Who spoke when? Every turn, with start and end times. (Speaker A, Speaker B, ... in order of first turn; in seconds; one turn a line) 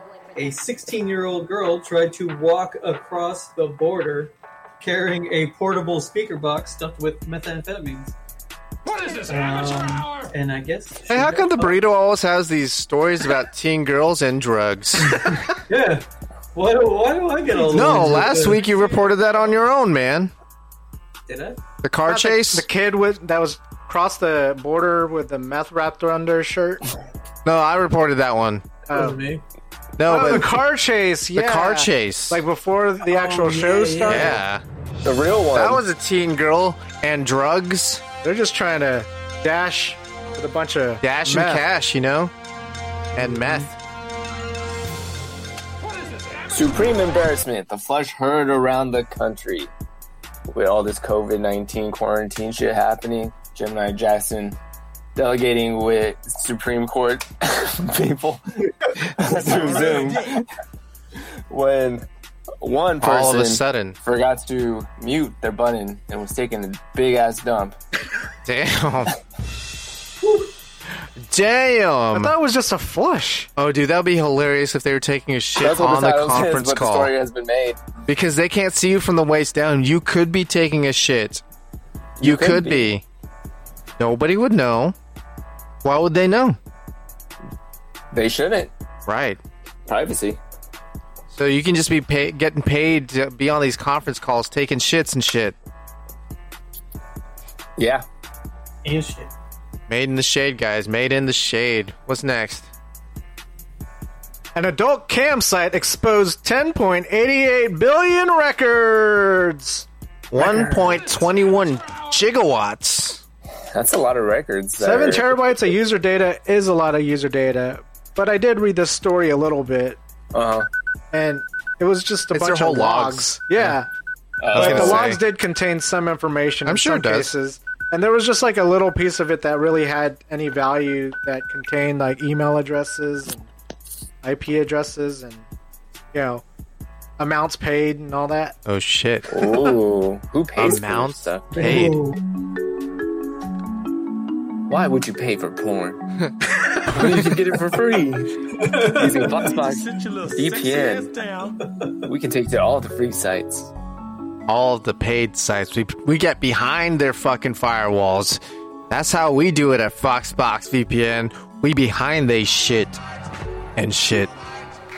Speaker A: 0.3-8.1
Speaker A: 9.1-11.8
Speaker B: 11.1-15.4
Speaker A: 15.0-18.7
Speaker B: 17.7-20.3
Speaker A: 21.3-21.6
Speaker B: 21.8-22.7
Speaker C: 22.1-26.8
Speaker B: 27.4-28.6
Speaker C: 28.9-29.2
Speaker A: 28.9-29.4
Speaker B: 30.0-30.6
Speaker C: 30.1-34.4
Speaker B: 31.4-32.4
Speaker A: 33.1-34.4
Speaker B: 34.1-34.6
Speaker D: 35.0-35.8
Speaker B: 35.5-38.0
Speaker C: 38.2-41.6
Speaker B: 41.0-42.3
Speaker B: 43.2-43.7
Speaker A: 43.2-43.7
Speaker D: 46.5-49.7
Speaker D: 50.5-54.6
Speaker D: 55.1-60.5
Speaker D: 61.5-62.1
Speaker D: 62.6-67.8
Speaker B: 63.0-64.0
Speaker B: 68.5-69.1
Speaker B: 71.3-72.3
Speaker C: 72.1-73.5
Speaker B: 73.6-77.1
Speaker D: 75.6-77.8
Speaker B: 78.1-81.4
Speaker D: 82.2-82.9
Speaker B: 82.2-83.0
Speaker B: 84.0-85.0
Speaker B: 85.8-86.6
Speaker D: 88.1-88.7
Speaker B: 89.1-89.4
Speaker D: 89.9-90.4
Speaker B: 91.3-95.5
Speaker D: 97.8-98.0
Speaker A: 98.8-99.3
Speaker B: 99.9-102.7
Speaker C: 104.5-109.9
Speaker B: 110.3-113.2
Speaker A: 110.3-111.0
Speaker D: 113.7-115.4
Speaker C: 114.8-120.0
Speaker D: 120.3-120.7
Speaker C: 121.1-123.9
Speaker B: 122.3-123.8
Speaker D: 124.4-125.0
Speaker B: 124.5-125.2
Speaker C: 124.5-133.5
Speaker B: 126.7-127.3
Speaker C: 134.2-135.4
Speaker C: 136.1-136.4
Speaker C: 137.2-138.6
Speaker B: 138.7-139.4
Speaker D: 139.3-141.8
Speaker B: 140.6-142.0
Speaker A: 141.5-142.2
Speaker D: 144.7-146.0
Speaker D: 146.8-151.1
Speaker A: 148.5-149.6
Speaker E: 149.6-151.6
Speaker D: 152.1-153.7
Speaker B: 154.5-163.0
Speaker B: 163.8-164.3